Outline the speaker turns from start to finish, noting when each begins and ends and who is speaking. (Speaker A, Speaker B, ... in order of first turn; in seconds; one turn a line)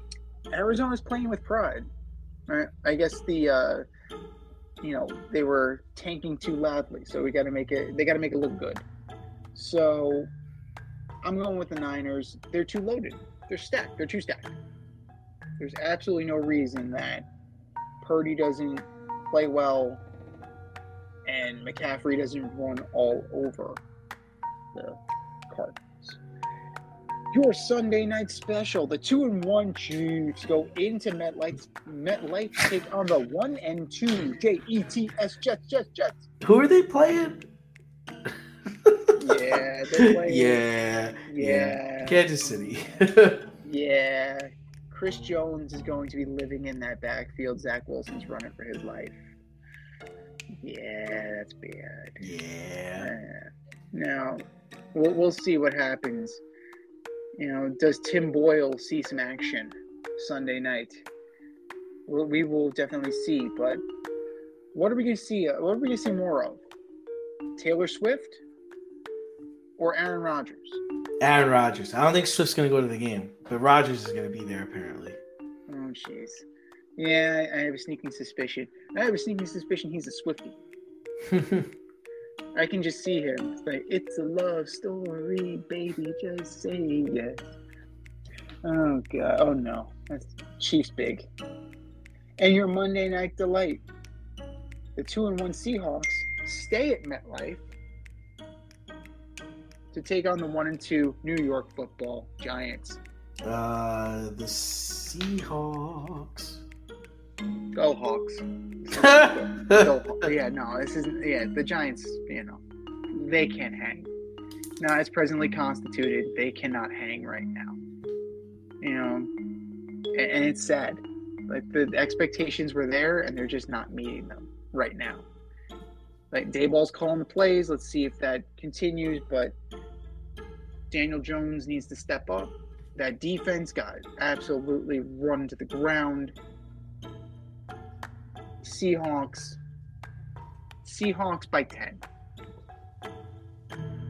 Speaker A: 0.5-1.9
Speaker A: 2.5-3.8
Speaker A: 4.8-8.8
Speaker A: 9.6-10.3
Speaker A: 11.2-14.5
Speaker A: 15.6-17.3
Speaker A: 18.0-20.0
Speaker A: 21.3-23.8
Speaker A: 24.7-26.2
Speaker A: 27.3-36.3
Speaker B: 36.4-37.5
Speaker B: 38.8-39.1
Speaker A: 39.2-40.6
Speaker B: 40.0-43.4
Speaker A: 41.3-42.2
Speaker A: 43.6-49.2
Speaker A: 50.6-52.2
Speaker B: 52.2-53.1
Speaker A: 53.0-56.4
Speaker A: 57.4-61.0
Speaker A: 62.1-63.8
Speaker A: 64.7-66.6
Speaker A: 67.6-68.4
Speaker A: 69.8-70.8
Speaker B: 71.2-75.2
Speaker A: 75.7-76.5
Speaker A: 77.0-80.6
Speaker B: 81.3-81.7
Speaker A: 82.5-87.5
Speaker A: 88.7-91.3
Speaker A: 92.4-93.8
Speaker A: 95.0-97.7
Speaker A: 99.9-103.0
Speaker B: 103.5-106.6
Speaker A: 107.8-112.6
Speaker B: 108.9-109.9
Speaker A: 113.1-114.1
Speaker A: 114.8-117.8
Speaker A: 118.8-119.3
Speaker A: 120.2-125.3
Speaker A: 126.3-129.6
Speaker A: 130.9-136.3
Speaker A: 138.6-139.6
Speaker A: 140.8-142.0